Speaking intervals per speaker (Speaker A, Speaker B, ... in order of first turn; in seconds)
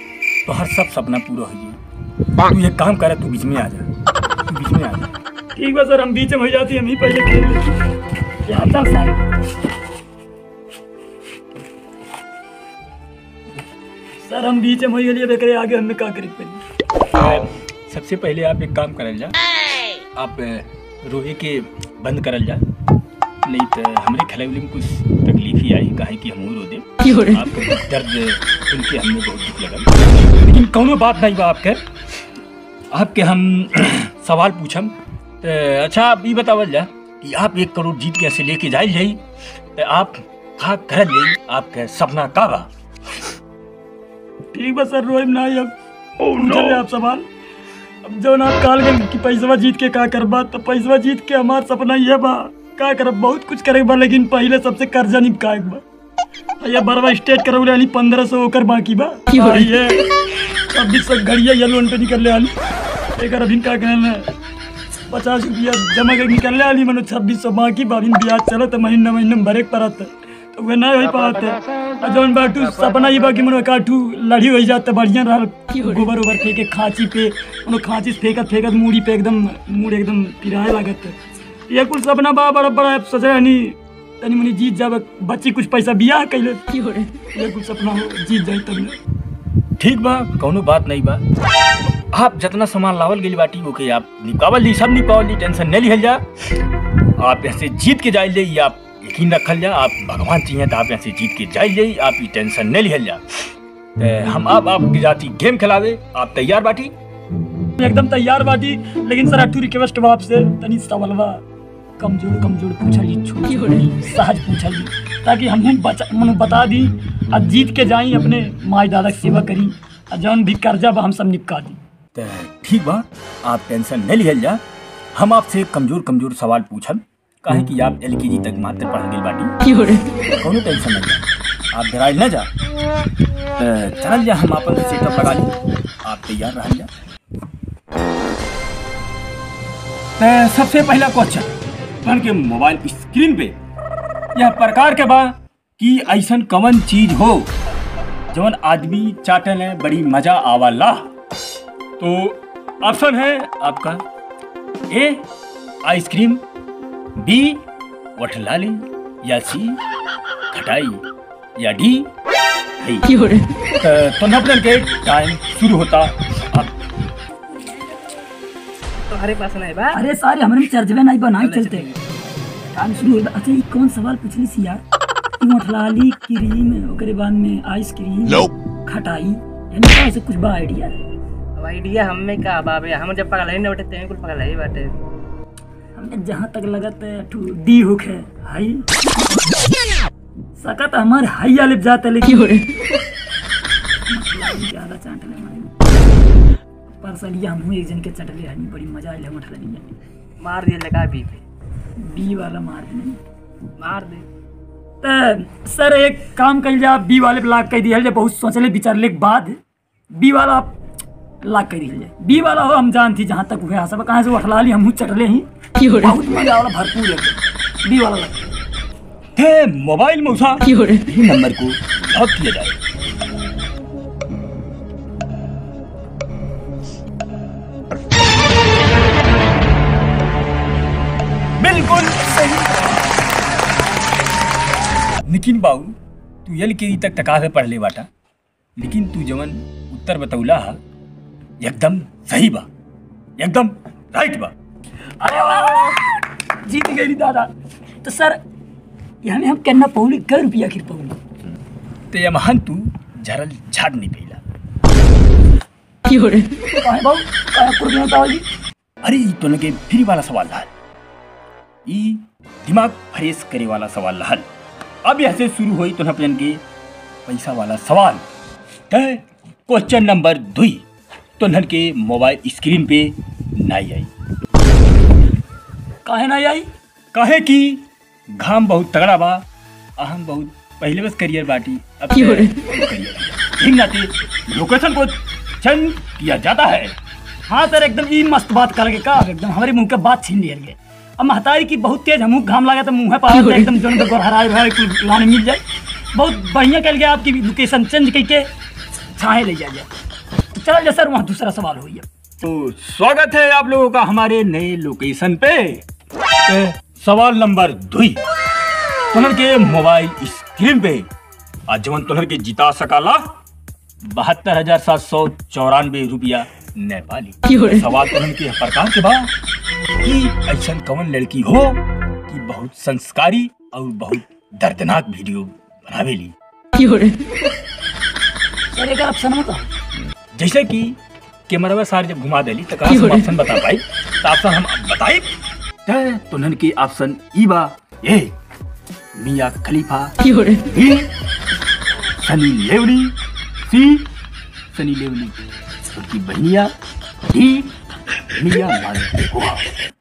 Speaker A: 0.5-1.8, 2.4-3.9, 4.5-5.1, 17.1-19.3, 20.1-22.6, 23.4-31.8, 32.9-39.2, 39.8-42.7, 89.8-91.2, 92.1-96.2, 97.2-103.2, 104.0-106.9, 122.1-124.6, 125.1-129.6, 130.4-132.5, 133.6-136.9, 140.2-141.5, 142.0-143.6, 144.3-147.5, 148.3-151.1, 152.0-154.0, 154.9-155.2, 155.8-156.4, 157.2-157.6, 158.2-159.8, 160.5-161.0, 161.6-162.1, 162.8-163.2, 163.8-166.7, 219.3-222.8, 231.6-233.1, 235.2-235.9, 236.4-238.1, 238.8-240.8, 241.6-242.7, 243.4-244.5, 252.1-254.4, 259.0-260.7, 261.9-264.4, 265.0-266.6, 267.3-268.2, 268.9-270.8, 271.4-274.1, 277.1-277.8, 278.4-279.4, 280.0-286.9, 302.4-305.8, 306.5-308.2, 309.1-311.1, 311.7-313.2, 314.1-319.3, 320.0-326.3, 330.3-331.0, 331.5-335.3, 335.9-338.3, 339.1-341.1, 342.2-343.1, 343.7-344.1, 344.7-345.4, 345.9-346.7, 347.3-347.8, 348.3-349.7
Speaker B: 5.5-7.7, 8.4-9.2, 14.2-16.6, 44.5-45.7, 46.2-47.2, 48.0-55.8, 56.6-60.0, 60.7-62.5, 63.2-64.3, 65.1-81.2, 81.7-86.7, 87.3-89.0, 107.8-111.4, 112.0-121.8, 169.9-171.9, 172.7-174.8, 175.4-181.0, 185.9-188.9, 190.6-192.6, 194.1-195.8, 196.9-199.9, 202.0-203.2, 205.0-209.6, 210.1-210.7, 211.4-218.5, 245.2-247.5, 248.0-248.4, 249.2-251.2, 256.8-258.4, 276.0-276.7, 287.5-295.6, 296.1-298.5, 299.1-299.9, 300.5-302.1, 328.7-329.7
Speaker C: 169.1-170.0, 171.4-172.1, 181.6-184.9, 200.4-201.4, 203.8-204.2